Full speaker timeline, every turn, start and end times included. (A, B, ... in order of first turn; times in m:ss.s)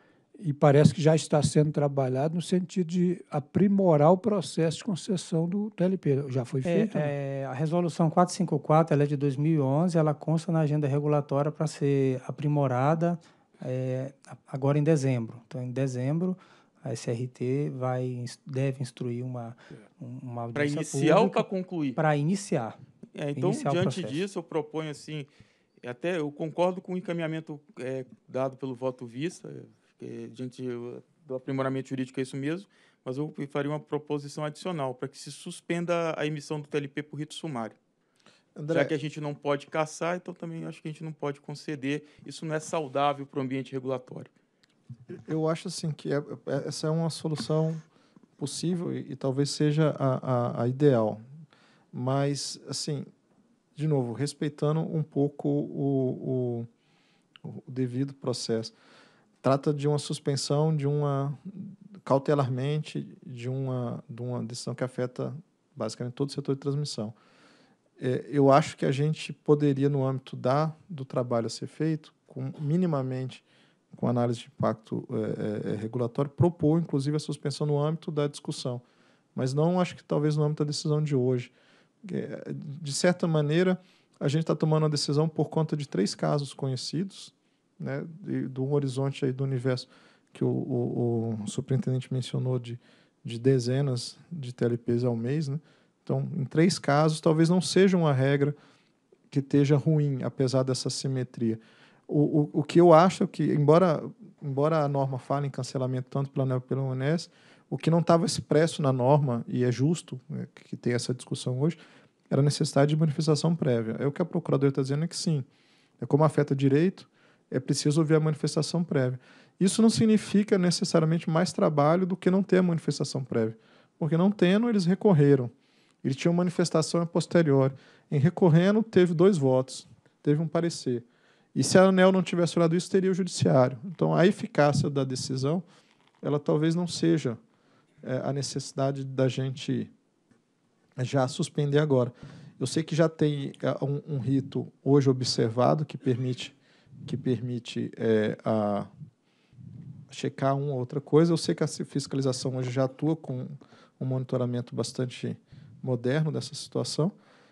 0:00.4-0:07.1 A
0:06.6-0:21.4 B
0:20.5-0:22.0 C
0:22.0-0:22.8 B
0:23.2-0:25.3 C
0:23.4-0:24.2 B
0:25.8-0:37.8 C
0:38.6-0:38.9 D
0:38.7-0:44.3 C
0:45.2-0:47.8 D
0:48.4-0:51.2 D
0:51.9-0:53.1 D
0:53.8-0:56.7 D
0:57.4-0:58.8 D
0:59.4-1:07.2 D
1:08.0-1:18.8 D
1:19.4-1:38.6 D
1:39.3-1:51.8 D
1:52.3-1:55.5 D
1:56.0-2:15.6 D
2:16.2-2:17.4 D
2:18.0-2:19.9 D
2:21.0-2:28.9 D
2:30.1-2:37.1 D